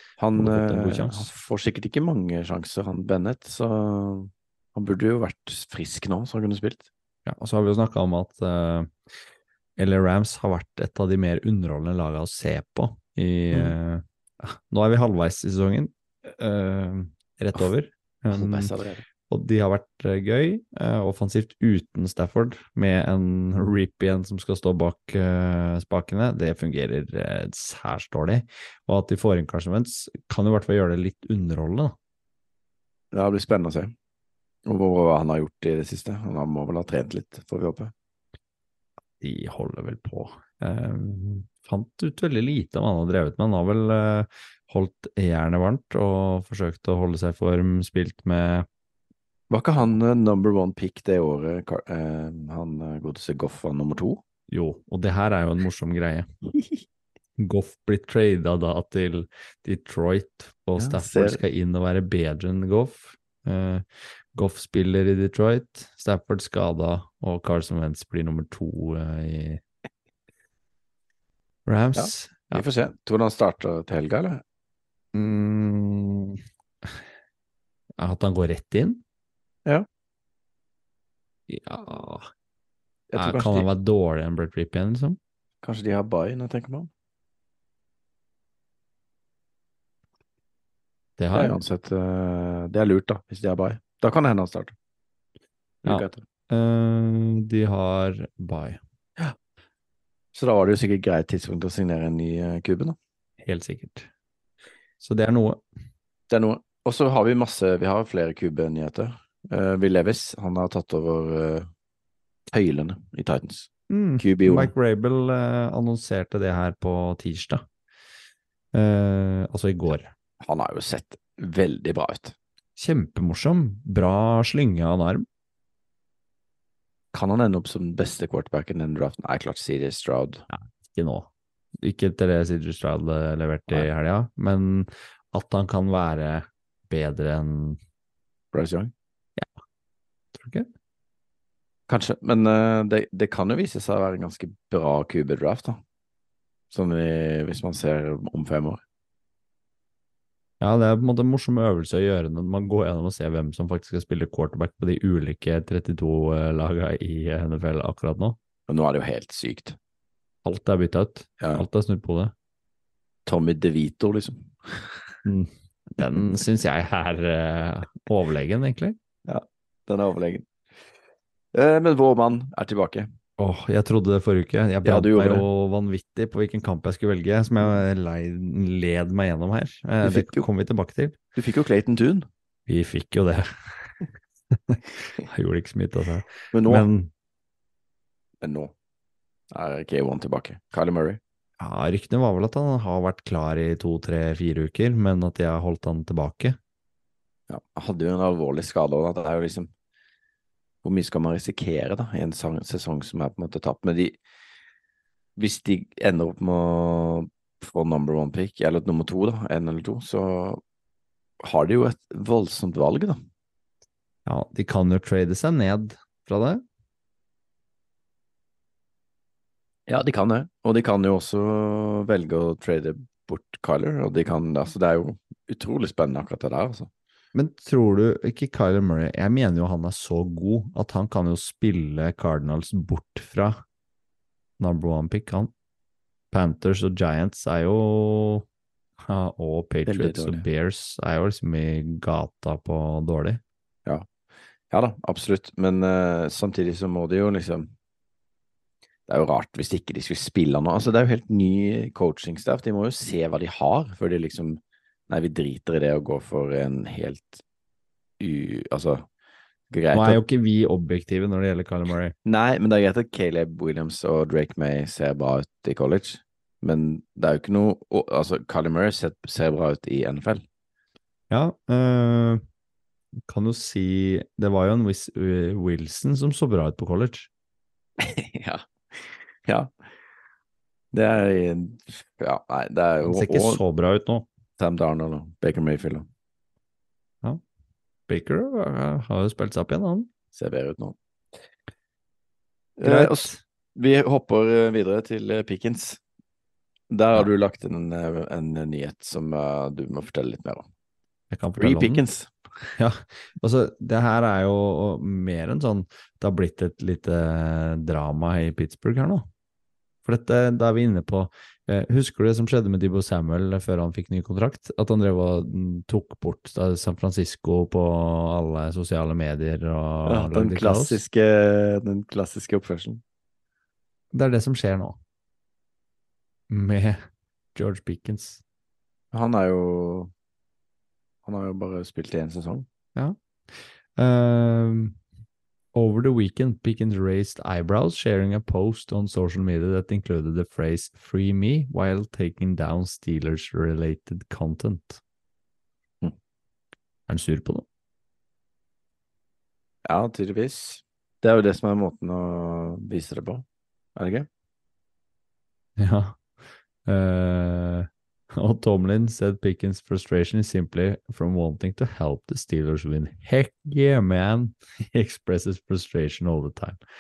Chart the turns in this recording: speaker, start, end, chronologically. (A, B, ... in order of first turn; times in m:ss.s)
0:00.2-0:06.9 A
0:00.4-0:01.3 B
0:07.3-0:09.0 B
0:09.8-0:18.7 B
0:18.3-0:19.0 A
0:19.3-0:32.0 B
0:33.1-0:33.9 A
0:34.7-0:37.9 A
0:39.2-0:48.7 B
0:49.5-0:54.2 A
0:54.5-0:56.3 B
0:57.4-1:03.8 B
1:00.8-1:01.4 A
1:04.4-1:09.6 B
1:11.7-1:12.7 B
1:12.0-1:14.4 A
1:15.1-1:16.9 B
1:18.0-1:19.0 B
1:21.5-1:22.3 B
1:23.1-1:23.7 A
1:23.2-1:25.2 B
1:25.6-1:26.9 A
1:31.2-1:31.6 B
1:31.3-1:34.8 A
1:35.8-1:36.2 A
1:35.8-1:38.8 B
1:40.4-1:43.0 A
1:43.4-1:44.1 B
1:45.0-1:45.6 B
1:46.3-1:51.7 A
1:52.5-1:54.7 A
1:53.9-1:57.6 B
1:58.7-2:00.1 B
2:00.4-2:02.4 A
2:02.8-2:05.3 B
2:07.1-2:10.4 A
2:10.5-2:17.8 B
2:18.5-2:18.9 A
2:20.4-2:20.7 B
2:21.9-2:25.8 A
2:26.7-2:28.8 A
2:30.6-2:38.4 B
2:38.7-2:39.8 A
2:40.4-2:42.3 B
2:41.4-2:41.7 A
2:43.3-2:44.9 A
2:45.2-2:49.0 B
2:49.3-2:50.5 A
2:51.5-2:53.1 A
2:53.4-3:01.2 B
2:54.8-2:55.5 A
3:00.0-3:00.5 A
3:01.4-3:02.3 A
3:02.7-3:03.9 B
3:04.5-3:07.1 B
3:06.5-3:06.9 A
3:08.4-3:08.7 A
3:09.5-3:11.2 A
3:11.6-3:16.6 B
3:17.5-3:19.7 A
3:20.8-3:24.2 A
3:25.4-3:30.6 A
3:31.4-3:33.2 A
3:34.3-3:36.6 B
3:39.9-3:46.9 A
3:47.3-3:53.6 B
3:54.6-3:55.5 B
3:56.3-3:58.5 B
3:59.0-4:03.4 B
3:59.9-4:00.4 A
4:04.7-4:07.7 A
4:09.1-4:17.4 A
4:18.2-4:19.1 A
4:19.7-4:20.2 A
4:19.9-4:22.1 B
4:22.3-4:30.4 A
4:31.3-4:32.4 B
4:33.2-4:37.3 B
4:38.0-4:39.7 A
4:40.9-4:43.6 A
4:43.0-4:44.3 B
4:44.6-4:46.1 A
4:48.1-4:50.1 B
4:50.3-4:51.0 A
4:52.8-4:56.0 A
4:52.8-4:53.4 B
4:56.9-5:00.7 A
5:01.3-5:02.0 B
5:01.6-5:02.3 A
5:02.8-5:09.3 B
5:10.0-5:21.0 B
5:20.1-5:23.0 A
5:24.1-5:25.0 B
5:26.5-5:27.0 B
5:27.6-5:28.4 B
5:29.1-5:30.1 A
5:31.2-5:32.7 A
5:33.0-5:35.0 B
5:35.8-5:45.0 B
5:47.1-5:47.6 B
5:49.8-5:53.4 A
5:54.0-5:54.3 A
5:55.8-5:56.2 B
5:56.9-6:06.8 B